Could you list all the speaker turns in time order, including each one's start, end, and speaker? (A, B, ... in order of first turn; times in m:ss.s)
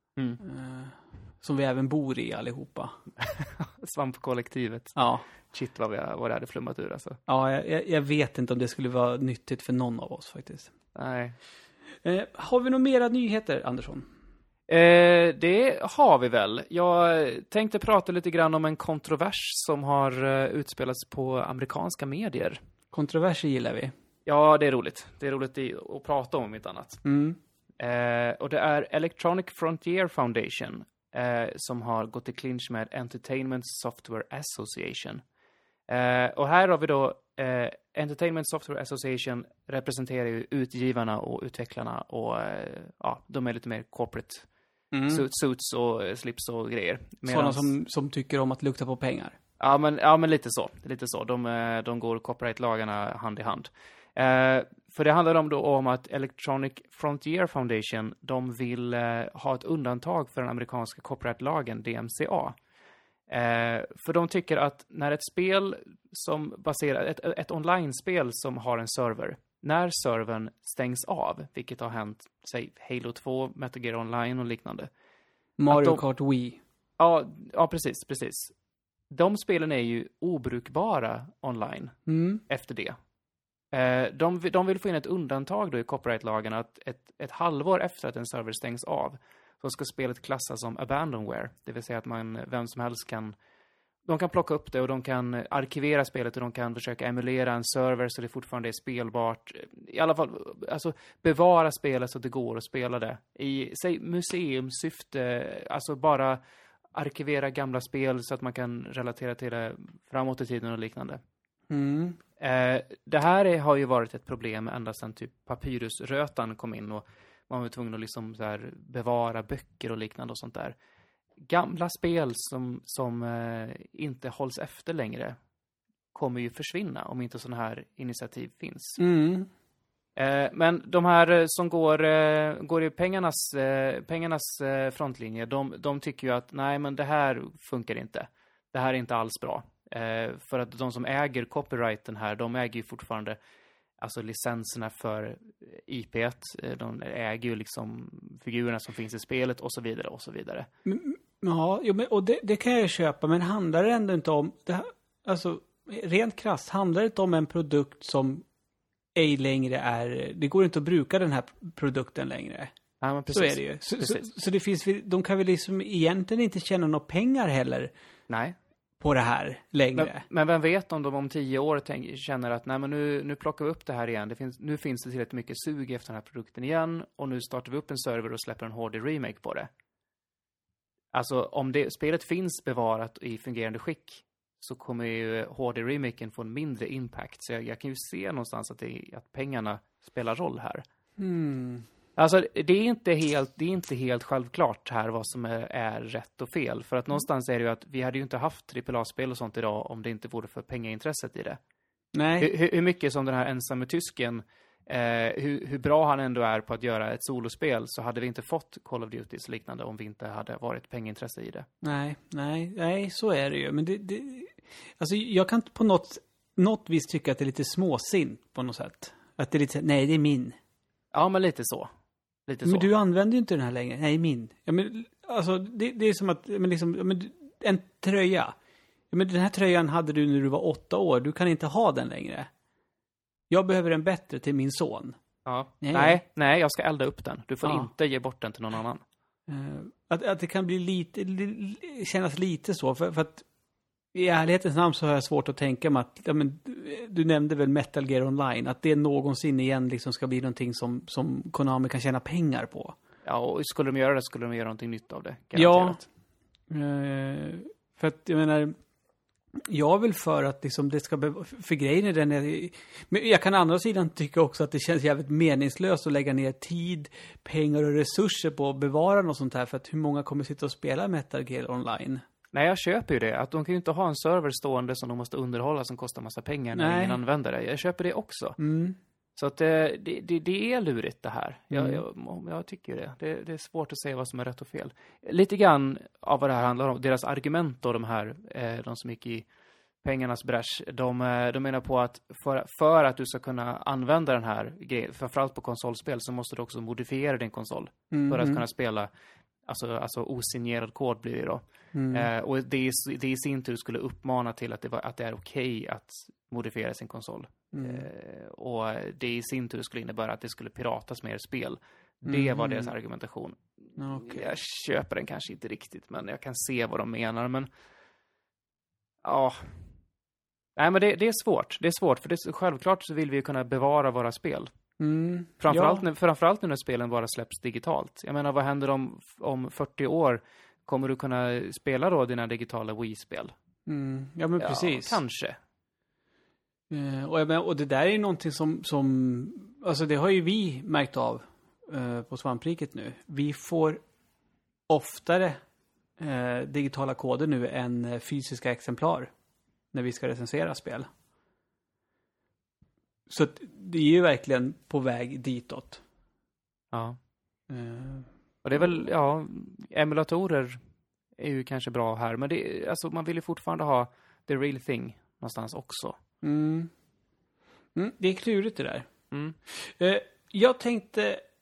0:00.4-0:03.0 A
0:03.2-0:05.0 B
0:05.0-0:05.2 A
0:05.5-0:07.2 B
0:07.3-0:10.7 A
0:10.9-0:11.4 B
0:12.0-0:14.1 A
0:14.7-0:22.6 B
0:22.9-0:23.9 A
0:24.2-0:27.0 B
0:27.0-0:27.4 A
0:27.8-0:35.2 B
0:35.9-0:44.4 B
0:44.9-0:45.2 A
0:45.1-0:47.7 B
0:47.2-0:49.4 A
0:49.6-1:02.6 B
1:03.3-1:14.9 B
1:15.6-1:16.6 A
1:15.7-1:16.0 B
1:17.0-1:18.5 B
1:19.1-1:23.0 B
1:22.1-1:22.4 A
1:23.7-1:33.4 B
1:34.0-1:46.4 B
1:46.9-1:51.2 B
1:51.7-1:52.2 A
1:52.4-2:00.8 B
2:01.4-2:05.4 B
2:06.1-2:09.0 B
2:09.0-2:09.5 A
2:10.2-2:23.4 B
2:24.0-2:30.7 B
2:30.8-2:38.4 A
2:39.1-2:42.7 A
2:43.0-2:44.2 B
2:43.3-2:47.9 A
2:48.3-2:48.6 B
2:49.0-2:50.2 A
2:50.0-2:59.7 B
3:01.1-3:10.8 B
3:11.2-3:11.9 A
3:12.2-3:21.6 B
3:22.1-3:22.5 A
3:22.4-3:31.7 B
3:31.8-3:40.6 A
3:41.1-3:41.9 B
3:42.5-3:42.9 B
3:42.6-3:48.5 A
3:49.1-3:52.5 A
3:53.5-3:55.2 A
3:55.4-3:59.0 B
3:55.8-3:56.2 A
3:57.6-3:57.9 A
3:59.5-4:03.4 A
4:04.1-4:13.0 A
4:13.2-4:16.0 B
4:15.5-4:16.0 A
4:16.7-4:18.8 A
4:19.7-4:32.2 A
4:32.5-4:38.6 B
4:36.7-4:37.2 A
4:38.6-4:39.0 A
4:39.4-4:49.5 B
4:41.7-4:42.0 A
4:50.0-4:59.1 B
4:58.1-4:58.6 A
4:59.6-5:13.6 B
5:01.9-5:02.3 A
5:07.7-5:08.1 A
5:12.3-5:12.9 A
5:14.0-5:14.5 A
5:14.2-5:17.7 B
5:19.2-5:19.8 B
5:20.8-5:24.7 B
5:25.0-5:26.0 A
5:25.6-5:33.5 B
5:33.9-5:35.2 A
5:34.6-5:35.6 B
5:36.9-5:44.0 A
5:44.9-5:45.6 A
5:46.2-5:49.3 A
5:49.9-5:51.1 A
5:53.3-5:56.0 A
5:56.9-5:57.2 B
5:57.7-5:58.3 A
5:58.6-6:00.8 B
6:01.4-6:06.2 B
6:06.4-6:06.9 A
6:07.9-6:09.1 A
6:09.3-6:09.6 B
6:09.7-6:11.4 A